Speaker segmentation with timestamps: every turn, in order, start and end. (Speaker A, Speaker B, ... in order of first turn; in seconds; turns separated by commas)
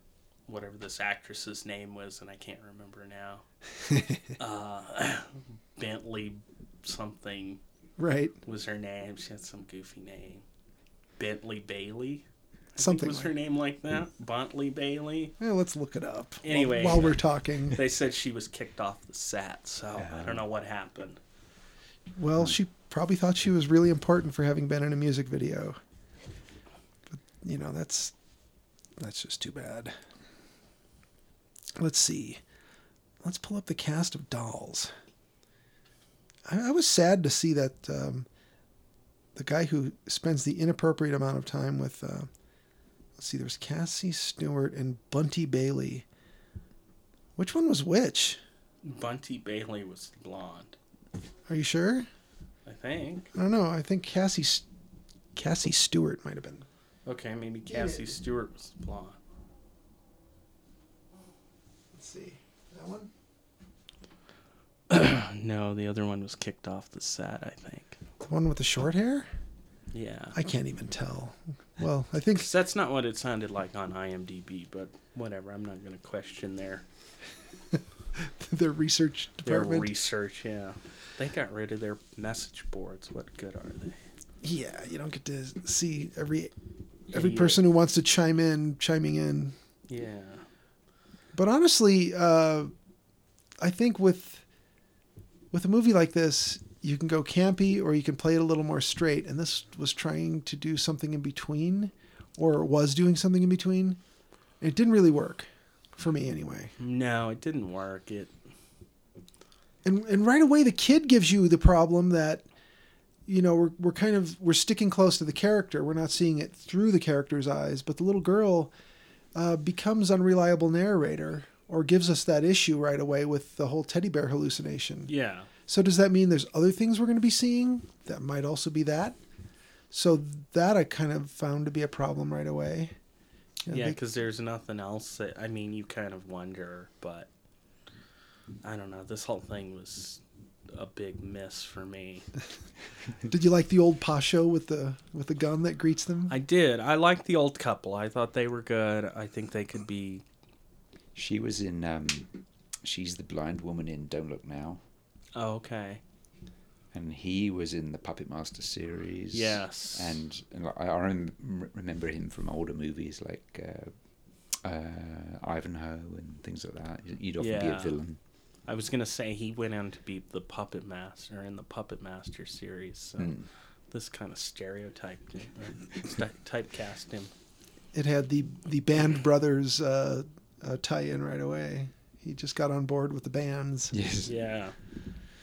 Speaker A: 0.5-3.4, Speaker A: 4.4-7.6, Speaker B: 8.0-8.4, Speaker A: 8.4-10.4, Speaker A: 11.2-15.3, Speaker B: 12.8-13.3, Speaker B: 15.4-17.8, Speaker A: 16.4-21.2, Speaker C: 20.0-20.4, Speaker B: 22.2-25.8, Speaker B: 27.1-28.1, Speaker B: 29.0-29.9, Speaker B: 31.8-32.4, Speaker B: 33.2-34.9, Speaker B: 36.5-38.3, Speaker B: 39.4-42.3, Speaker B: 43.2-46.0, Speaker B: 47.4-48.4, Speaker A: 48.8-50.8, Speaker B: 51.5-52.1, Speaker A: 52.6-53.3, Speaker B: 53.3-54.6, Speaker B: 55.4-56.6, Speaker A: 57.0-59.2, Speaker B: 57.7-58.1, Speaker B: 61.9-63.1, Speaker A: 64.9-68.0, Speaker B: 68.2-69.3, Speaker A: 69.9-70.4, Speaker B: 70.3-72.5, Speaker A: 72.3-76.8, Speaker B: 77.7-79.9, Speaker A: 79.4-84.0, Speaker B: 84.4-86.5, Speaker A: 87.1-87.6, Speaker B: 87.1-89.5, Speaker A: 89.9-90.4, Speaker B: 91.3-92.7, Speaker B: 93.6-94.4, Speaker B: 95.5-104.0, Speaker B: 104.6-106.7, Speaker A: 106.8-108.3, Speaker B: 109.8-112.4, Speaker B: 113.3-118.7, Speaker B: 119.3-125.1, Speaker A: 125.1-125.5, Speaker B: 125.7-129.2, Speaker B: 129.9-132.9, Speaker B: 133.6-134.0, Speaker A: 133.7-137.3, Speaker A: 138.6-142.3, Speaker B: 143.3-146.3, Speaker A: 146.3-150.2, Speaker C: 151.1-152.3, Speaker C: 152.8-154.8, Speaker A: 155.3-156.0, Speaker C: 156.9-163.9, Speaker A: 159.3-160.2, Speaker C: 164.6-168.2, Speaker A: 167.4-168.0, Speaker A: 168.7-173.4, Speaker C: 173.2-173.4, Speaker A: 173.9-177.3, Speaker B: 177.9-183.9, Speaker C: 183.9-184.3, Speaker A: 184.2-184.7